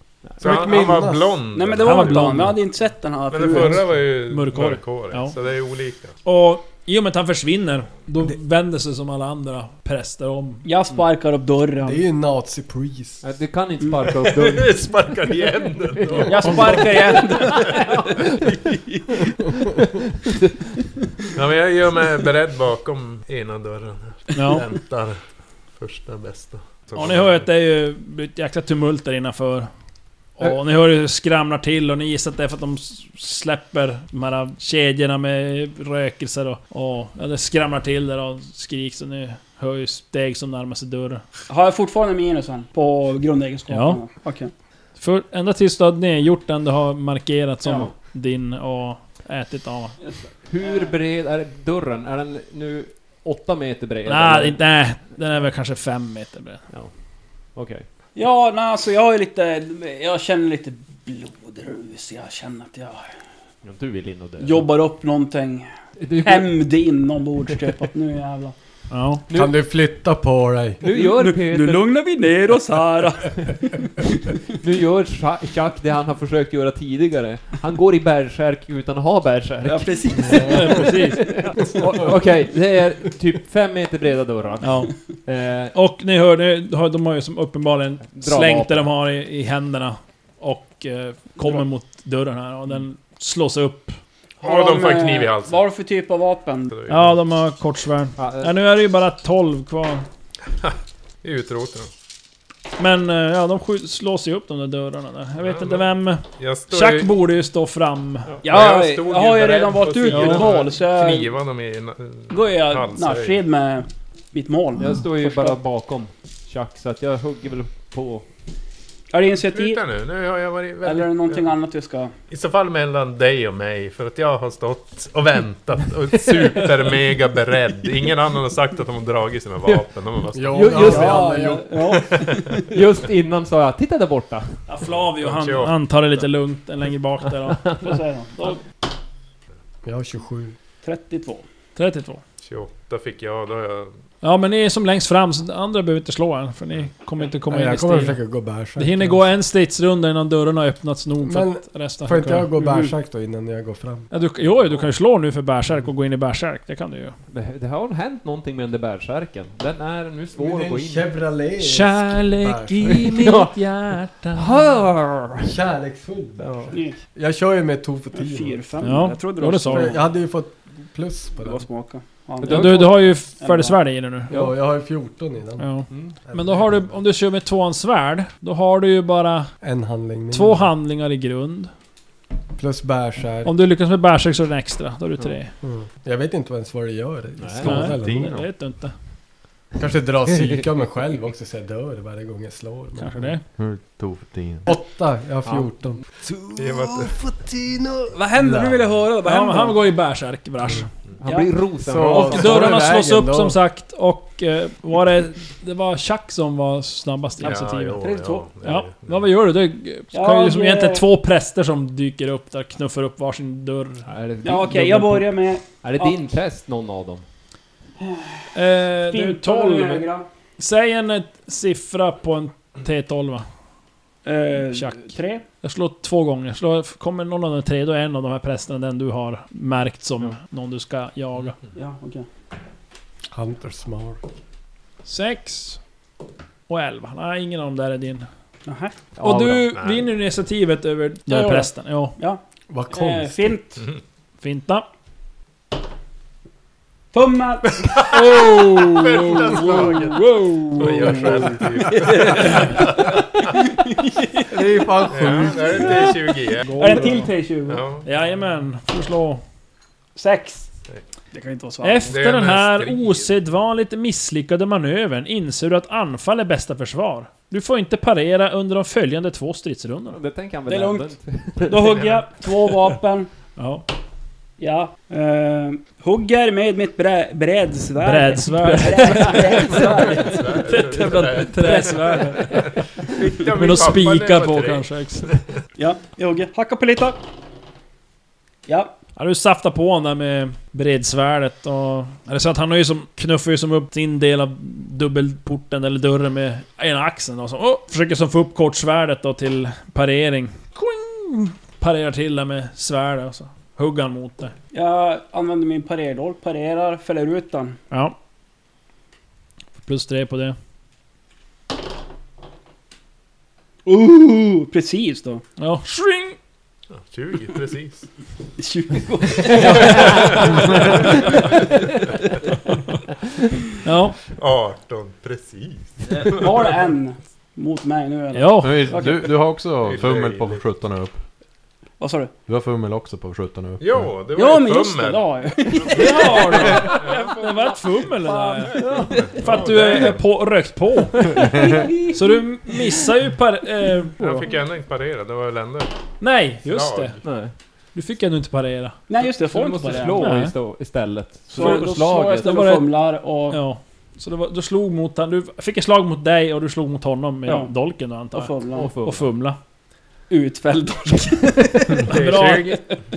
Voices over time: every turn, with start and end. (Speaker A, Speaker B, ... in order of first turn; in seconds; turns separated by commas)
Speaker A: 0.4-1.4, Speaker B: 0.4-2.5, Speaker C: 1.5-3.9, Speaker D: 1.8-2.5, Speaker B: 3.3-6.1, Speaker D: 4.3-5.3, Speaker D: 6.2-10.7, Speaker C: 10.6-12.0, Speaker A: 11.8-13.2, Speaker E: 13.2-14.9, Speaker B: 14.2-17.7, Speaker E: 16.0-18.3, Speaker C: 16.2-17.9, Speaker C: 18.5-19.7, Speaker B: 21.4-25.2, Speaker D: 24.3-24.6, Speaker B: 25.7-27.4, Speaker D: 26.9-29.7, Speaker D: 30.4-41.2, Speaker C: 41.5-44.5, Speaker D: 43.7-44.0, Speaker D: 45.0-50.0, Speaker C: 50.0-50.9, Speaker E: 50.5-54.6, Speaker D: 54.0-56.6, Speaker E: 57.5-57.8, Speaker C: 58.1-63.1, Speaker E: 63.6-64.6, Speaker C: 64.4-65.7, Speaker E: 66.0-66.5, Speaker C: 66.2-68.5, Speaker D: 68.9-69.2, Speaker E: 69.3-69.6, Speaker A: 69.3-70.8, Speaker E: 70.8-71.8, Speaker C: 70.9-74.3, Speaker E: 74.5-85.7, Speaker C: 79.6-80.9, Speaker A: 80.3-80.5, Speaker D: 80.5-81.5, Speaker D: 84.6-84.9, Speaker D: 85.7-94.0, Speaker E: 88.2-88.9, Speaker C: 94.4-96.8, Speaker B: 94.4-95.6, Speaker B: 96.7-97.2, Speaker D: 96.9-100.0, Speaker E: 98.2-98.5, Speaker B: 100.6-101.9, Speaker D: 102.8-108.3, Speaker B: 105.4-105.8, Speaker B: 106.4-107.1, Speaker B: 108.4-113.4, Speaker C: 108.4-111.3, Speaker D: 110.1-110.5, Speaker C: 112.3-115.6, Speaker E: 114.8-118.3, Speaker C: 119.1-119.8, Speaker B: 119.4-121.5, Speaker C: 120.8-122.1, Speaker B: 122.3-130.7, Speaker E: 126.1-127.0, Speaker A: 130.3-132.0, Speaker E: 130.5-131.6, Speaker C: 130.7-132.7, Speaker B: 132.1-132.4, Speaker E: 132.6-134.6, Speaker D: 134.7-138.6, Speaker B: 134.8-135.8, Speaker E: 137.5-137.8, Speaker C: 137.8-138.6, Speaker A: 139.8-140.6, Speaker C: 140.8-141.4, Speaker D: 141.8-142.2, Speaker B: 142.4-143.9, Speaker D: 144.2-148.2, Speaker A: 147.5-149.3, Speaker D: 148.8-152.5, Speaker A: 151.2-154.1, Speaker C: 152.6-152.9, Speaker D: 154.1-157.2, Speaker E: 157.3-161.1, Speaker A: 160.3-163.1, Speaker D: 161.6-164.5, Speaker E: 163.0-163.6, Speaker E: 164.3-165.5, Speaker A: 165.4-168.6, Speaker E: 166.4-166.7, Speaker C: 168.2-170.0, Speaker D: 168.8-169.9, Speaker A: 169.7-171.6, Speaker C: 171.4-173.8, Speaker E: 172.4-173.0, Speaker D: 172.4-174.4, Speaker A: 174.3-175.7, Speaker D: 175.6-179.5, Speaker A: 176.2-176.9, Speaker A: 179.6-180.7, Speaker D: 180.3-181.7, Speaker A: 182.6-183.5, Speaker D: 183.4-185.5, Speaker A: 185.6-188.4, Speaker E: 187.4-187.8, Speaker D: 187.6-188.9, Speaker F: 187.7-188.4, Speaker A: 189.8-193.3, Speaker D: 193.0-193.4, Speaker F: 193.6-194.7, Speaker A: 194.7-199.0, Speaker E: 195.4-195.7, Speaker B: 196.6-197.1, Speaker C: 198.1-199.8, Speaker D: 199.2-200.9, Speaker E: 201.2-202.9, Speaker C: 201.2-201.5, Speaker A: 201.8-203.6, Speaker D: 202.3-208.0, Speaker B: 207.4-209.2, Speaker C: 208.0-208.5, Speaker D: 208.6-214.1, Speaker C: 210.1-211.0, Speaker E: 214.1-217.2, Speaker C: 214.4-216.2, Speaker C: 218.0-218.5, Speaker D: 218.5-220.0, Speaker C: 219.1-220.2, Speaker D: 220.6-223.4, Speaker C: 224.2-225.4, Speaker D: 224.7-231.6, Speaker C: 231.8-232.2, Speaker A: 233.3-234.2, Speaker D: 235.1-235.8, Speaker D: 236.7-238.3, Speaker C: 238.7-238.9, Speaker E: 239.2-239.7, Speaker D: 239.2-242.2, Speaker B: 239.7-240.1, Speaker C: 241.3-243.8, Speaker A: 242.7-243.6, Speaker D: 244.4-244.8, Speaker C: 247.1-247.9, Speaker D: 248.1-251.2, Speaker B: 248.3-253.2, Speaker C: 249.4-250.0, Speaker C: 250.8-254.9, Speaker A: 254.5-256.0, Speaker B: 255.1-256.8, Speaker C: 255.4-256.1, Speaker D: 256.7-257.3, Speaker C: 256.8-257.8, Speaker B: 257.7-258.1, Speaker D: 258.0-259.4, Speaker C: 260.1-260.7, Speaker C: 261.3-262.1, Speaker D: 261.8-270.2, Speaker B: 262.1-263.3, Speaker E: 270.1-272.0, Speaker C: 270.7-271.1, Speaker C: 271.6-273.3, Speaker B: 271.9-272.2, Speaker D: 273.6-273.8, Speaker C: 274.6-282.6, Speaker D: 278.0-282.7, Speaker E: 278.9-279.5, Speaker B: 279.8-285.4, Speaker D: 283.5-285.3, Speaker C: 285.8-287.2, Speaker C: 288.7-288.9, Speaker D: 289.1-304.5, Speaker C: 304.7-307.8, Speaker D: 307.9-308.1, Speaker D: 309.8-310.6, Speaker C: 313.9-315.4, Speaker D: 315.6-316.4, Speaker B: 316.9-318.0, Speaker C: 318.6-321.7, Speaker B: 319.4-321.5, Speaker D: 323.8-324.2, Speaker B: 324.3-326.8, Speaker C: 326.2-329.3, Speaker D: 328.3-328.8, Speaker F: 328.6-331.2, Speaker B: 329.8-330.6, Speaker C: 332.0-332.3, Speaker F: 332.5-334.1, Speaker B: 333.8-337.4, Speaker C: 334.3-339.6, Speaker D: 335.9-341.5, Speaker E: 338.8-339.1, Speaker B: 339.1-340.2, Speaker C: 341.3-342.7, Speaker D: 342.1-344.5, Speaker B: 344.2-345.9, Speaker D: 346.2-347.2, Speaker B: 346.6-347.2, Speaker E: 347.2-347.5, Speaker D: 347.9-349.0, Speaker C: 349.1-350.3, Speaker E: 349.4-352.7, Speaker D: 350.2-350.5, Speaker C: 351.5-353.6, Speaker D: 351.5-352.9, Speaker D: 353.5-359.6, Speaker C: 357.5-357.7, Speaker C: 358.3-358.9, Speaker E: 358.7-359.3, Speaker C: 360.3-362.2, Speaker B: 362.0-362.8, Speaker D: 362.1-362.8